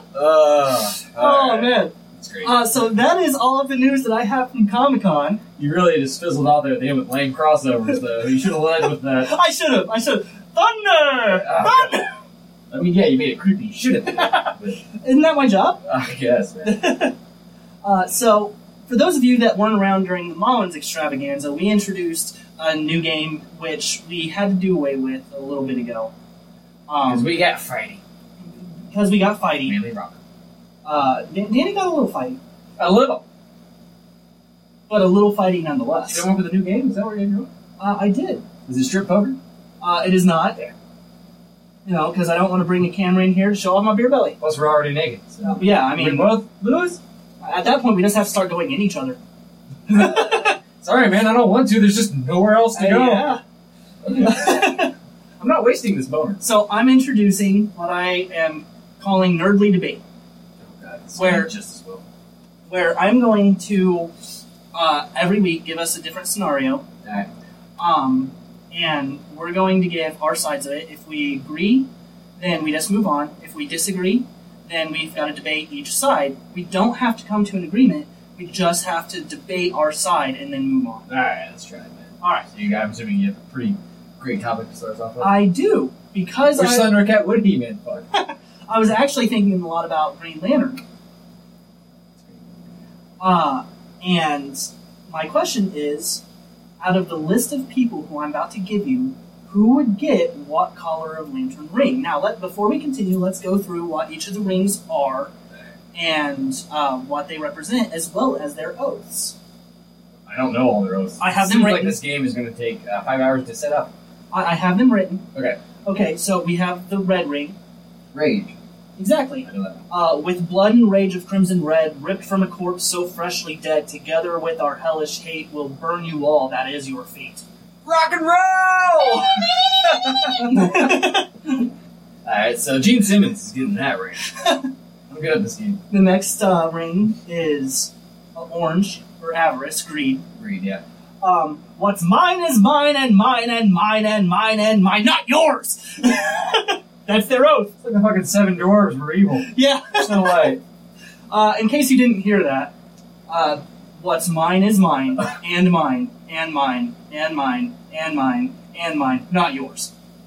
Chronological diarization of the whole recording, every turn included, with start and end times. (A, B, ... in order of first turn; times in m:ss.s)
0:00.1-0:02.6 A
0:01.2-0:05.4 B
0:05.6-0:09.3 A
0:09.2-0:12.1 B
0:11.2-0:12.1 A
0:12.7-0:14.8 A
0:14.1-0:15.8 B
0:15.8-0:16.9 A
0:16.6-0:17.1 B
0:17.8-0:26.1 B
0:26.9-0:27.3 B
0:27.0-0:28.0 A
0:28.9-0:29.8 B
0:29.6-0:30.2 A
0:30.8-0:32.4 B
0:32.8-0:33.2 A
0:34.9-0:36.2 B
0:36.1-0:37.5 A
0:37.8-0:38.4 B
0:38.6-0:39.4 A
0:39.8-0:40.7 B
0:41.8-0:44.4 B
0:44.4-0:47.0 A
0:45.4-0:46.4 B
0:47.4-0:49.2 B
0:49.9-0:50.6 B
0:49.9-0:53.3 A
0:52.7-0:53.4 B
0:54.0-0:54.8 A
0:54.1-0:54.9 B
0:55.4-0:56.4 A
0:56.4-1:00.0 B
1:00.6-1:02.0 A
1:01.1-1:01.5 B
1:02.7-1:04.1 B
1:04.7-1:06.8 B
1:07.0-1:07.3 A
1:07.8-1:21.1 B
1:21.1-1:25.4 A
1:22.2-1:22.5 B
1:25.2-1:27.0 B
1:26.5-1:28.1 A
1:28.1-1:30.8 B
1:33.2-1:36.2 B
1:36.8-1:45.3 B
1:45.9-1:49.3 B
1:50.3-1:53.9 A
1:51.2-1:52.0 B
1:54.3-1:55.2 B
1:55.3-1:55.6 A
1:55.8-1:57.6 B
1:58.1-1:58.5 A
1:59.0-2:07.4 B
1:59.4-1:59.8 A
2:07.8-2:11.0 A
2:10.2-2:11.6 B
2:12.2-2:14.2 A
2:14.3-2:14.6 B
2:15.1-2:15.8 A
2:15.9-2:20.2 B
2:20.4-2:20.8 A
2:21.2-2:27.7 B
2:27.8-2:30.6 A
2:29.4-2:30.6 B
2:31.3-2:32.7 B
2:33.3-2:39.9 B